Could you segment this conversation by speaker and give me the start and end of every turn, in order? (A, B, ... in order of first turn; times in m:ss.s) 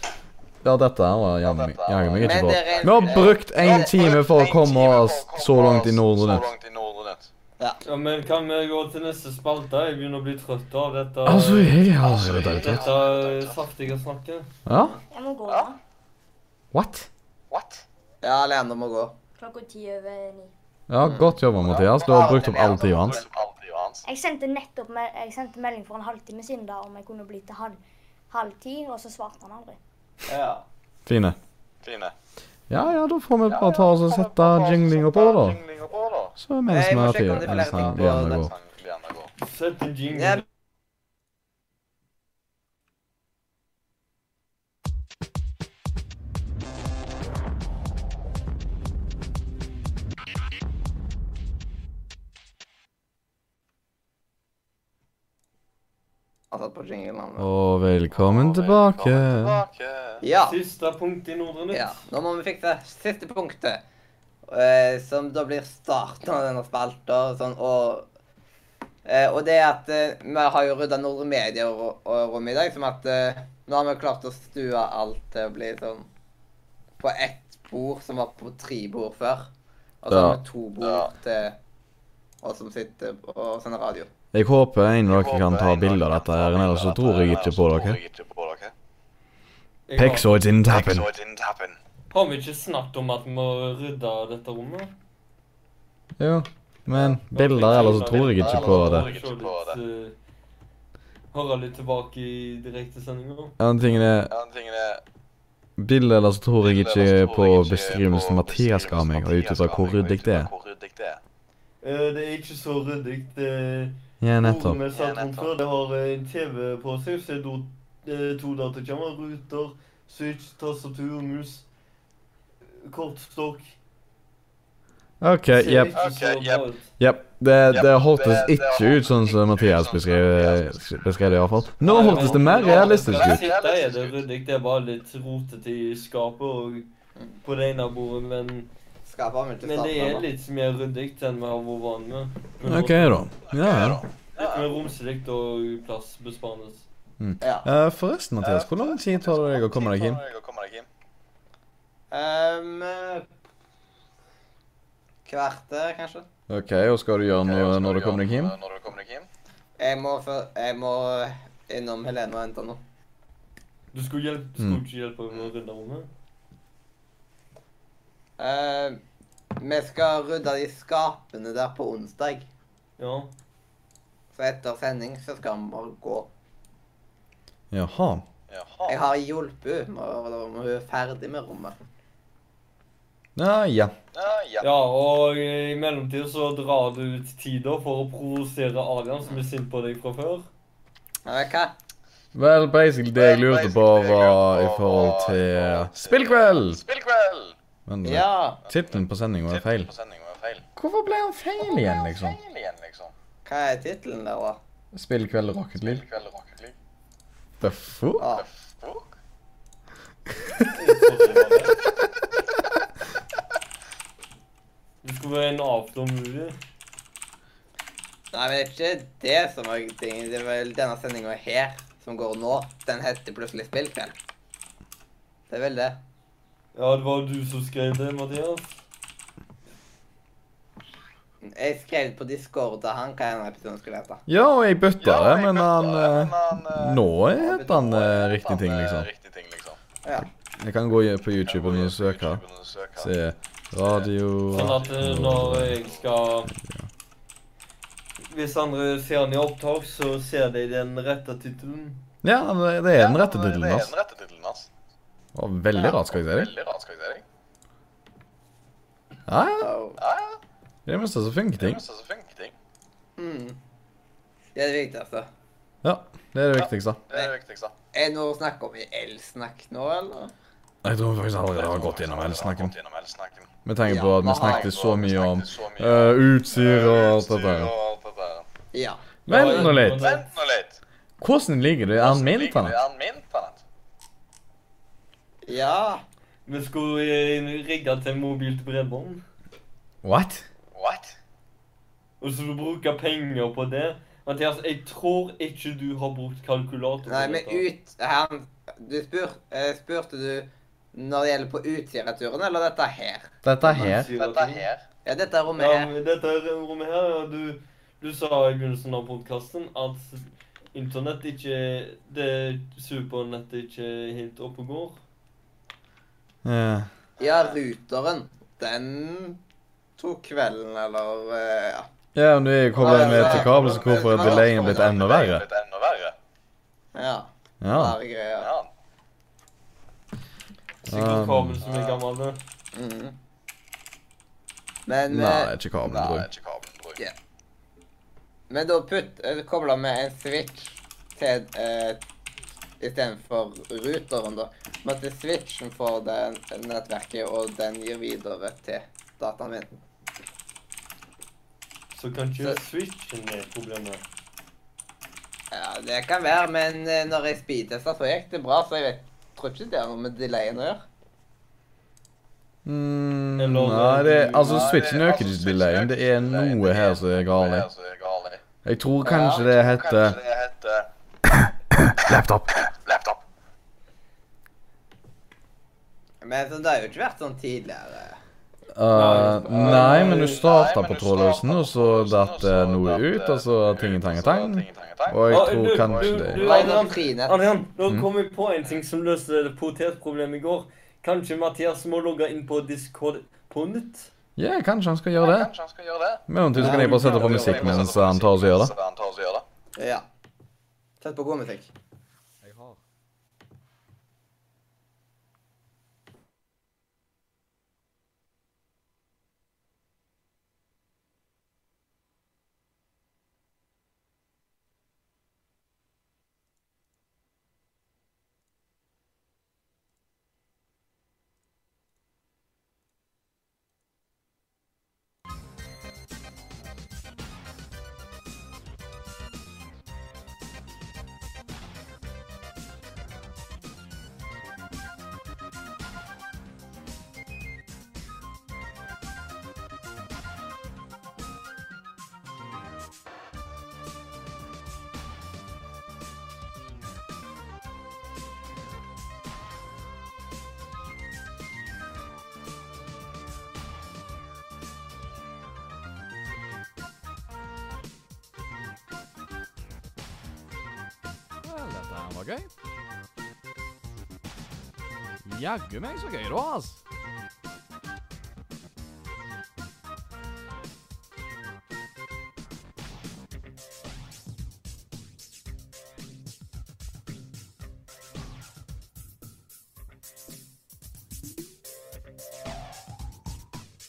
0:00.6-0:06.4 A
0:01.4-0:07.3 B
0:02.2-0:03.9 C
0:07.8-0:11.8 D
0:11.2-0:12.9 A
0:12.0-0:13.6 B
0:12.4-0:14.5 D
0:14.7-0:15.0 A
0:14.7-0:15.0 C
0:15.1-0:15.8 E
0:16.7-0:17.1 A
0:17.5-0:17.8 B
0:18.2-0:19.1 C
0:19.4-0:20.5 E
0:20.9-0:23.2 A
0:21.0-0:21.4 C
0:21.6-0:24.0 B
0:22.1-0:22.9 C
0:24.0-0:27.8 E
0:28.3-0:29.8 E
0:30.3-0:30.7 C
0:31.1-0:31.4 A
0:31.8-0:32.1 B
0:32.7-0:35.6 A
0:33.5-0:36.4 B
0:36.4-0:38.5 A
0:36.7-0:38.5 C
0:37.9-0:39.3 B
0:39.4-0:40.4 D
0:40.1-0:40.4 C
0:56.5-0:57.5 C
0:57.4-0:59.6 A
0:58.1-1:00.2 B
1:00.2-1:00.6 C
1:00.4-1:02.0 D
1:01.7-1:03.8 C
1:04.5-1:08.1 C
1:09.0-1:16.1 C
1:17.0-1:19.5 C
1:20.0-1:21.6 C
1:20.1-1:20.4 A
1:20.8-1:21.1 B
1:22.4-1:24.1 C
1:24.3-1:28.0 A
1:25.1-1:28.7 B
1:29.9-1:30.5 D
1:30.0-1:31.1 A
1:30.6-1:31.8 B
1:32.1-1:34.9 D
1:36.2-1:39.1 A
1:36.9-1:37.2 C
1:37.3-1:40.2 D
1:37.6-1:39.8 B
1:41.3-1:43.6 D
1:43.6-1:44.3 A
1:44.3-1:45.0 B
1:45.8-1:50.5 A
1:46.6-1:51.2 B
1:51.8-2:01.7 D
1:54.2-1:54.8 A
1:54.8-1:55.5 B
2:02.8-2:03.8 D
2:05.2-2:06.0 A
2:05.5-2:06.9 D
2:05.9-2:06.7 B
2:07.0-2:13.5 A
2:07.7-2:14.2 B
2:11.8-2:16.9 D
2:17.4-2:18.7 D
2:19.1-2:20.3 C
2:19.6-2:23.2 D
2:22.7-2:24.0 A
2:23.5-2:24.7 B
2:24.4-2:26.9 D
2:27.2-2:30.2 A
2:27.4-2:27.7 C
2:28.4-2:30.9 B
2:32.1-2:33.3 C
2:35.2-2:36.3 C
2:36.5-2:38.5 A
2:37.4-2:39.3 B
2:39.8-2:42.8 C
2:43.9-2:46.1 D
2:48.4-2:49.0 C
2:49.6-2:52.5 C
2:53.0-2:53.3 D
2:54.3-2:56.3 C
2:57.7-2:58.2 A
2:58.5-2:59.0 B
2:58.9-3:01.8 C
3:03.4-3:03.9 A
3:04.1-3:04.8 B
3:04.6-3:10.5 D
3:11.2-3:11.7 C
3:12.4-3:16.8 A
3:13.1-3:17.6 B
3:17.9-3:19.9 A
3:18.0-3:18.6 C
3:18.7-3:20.6 B
3:20.8-3:22.4 A
3:21.6-3:23.1 B
3:23.4-3:24.6 C
3:24.9-3:26.0 A
3:25.8-3:26.8 B
3:27.6-3:28.2 A
3:28.2-3:28.4 C
3:28.3-3:29.2 B
3:30.7-3:31.8 D
3:35.0-3:36.6 D
3:38.3-3:44.2 C
3:45.5-3:46.0 C
3:46.8-3:48.8 D
3:51.4-3:54.2 C
3:54.3-3:59.1 A
3:55.0-3:57.0 B
3:57.4-3:57.8 C
3:57.7-3:59.8 B
4:00.6-4:02.4 A
4:01.4-4:03.1 B
4:03.0-4:05.8 A
4:03.7-4:06.1 B
4:04.5-4:06.5 D
4:06.6-4:06.9 A
4:08.3-4:12.0 D
4:12.2-4:13.9 A
4:12.9-4:14.7 B
4:15.4-4:16.5 A
4:15.9-4:17.2 B
4:19.3-4:19.7 A
4:19.6-4:20.0 C
4:20.0-4:20.4 B
4:20.9-4:21.8 A
4:21.6-4:22.6 B
4:23.2-4:23.6 C
4:24.6-4:25.3 C
4:25.8-4:27.0 A
4:26.6-4:27.7 B
4:27.9-4:30.3 C
4:30.8-4:32.7 A
4:31.5-4:33.5 B
4:33.6-4:37.7 A
4:33.9-4:34.7 C
4:34.2-4:38.5 B
4:38.7-4:39.1 C
4:39.3-4:40.1 A
4:39.3-4:40.3 D
4:39.4-4:40.8 B
4:41.2-4:42.8 A
4:42.0-4:43.6 B
4:45.4-4:46.0 C
4:46.5-4:49.2 D
4:50.0-4:50.4 A
4:50.7-4:51.2 B
4:52.2-4:57.7 D
4:57.1-5:03.9 C
5:03.4-5:04.1 A
5:03.7-5:04.7 D
5:04.0-5:04.8 B
5:05.0-5:05.9 C
5:05.6-5:15.0 D
5:16.4-5:16.9 A
5:17.2-5:19.4 C
5:17.2-5:17.5 B
5:20.0-5:21.9 C
5:22.2-5:25.4 A
5:22.8-5:25.0 C
5:22.9-5:26.2 B
5:26.9-5:28.5 C
5:27.6-5:28.0 A
5:28.4-5:28.7 B
5:30.8-5:32.4 D
5:30.9-5:31.6 A
5:31.6-5:32.0 B
5:32.7-5:33.2 C
5:34.9-5:35.5 C
5:35.1-5:36.3 A
5:35.8-5:37.0 B
5:38.5-5:42.0 C
5:42.8-5:49.7 C
5:51.9-5:54.0 D
5:55.5-6:00.8 C
6:02.6-6:07.7 A
6:03.4-6:04.7 D
6:04.4-6:08.4 B
6:08.6-6:10.2 A
6:09.0-6:09.4 C
6:09.3-6:10.9 B
6:11.3-6:12.6 A
6:12.6-6:13.2 B
6:16.2-6:18.2 C
6:18.7-6:26.6 A
6:18.9-6:20.5 D
6:19.6-6:26.9 B
6:25.3-6:34.1 D
6:26.4-6:27.5 C
6:34.4-6:35.5 A
6:35.2-6:39.4 B
6:36.3-6:38.7 A
6:36.5-6:37.9 D
6:36.6-6:36.9 C
6:39.8-6:40.1 C
6:41.0-6:41.7 C
6:42.4-6:42.8 A
7:41.4-7:42.5 A
7:45.2-7:46.8 A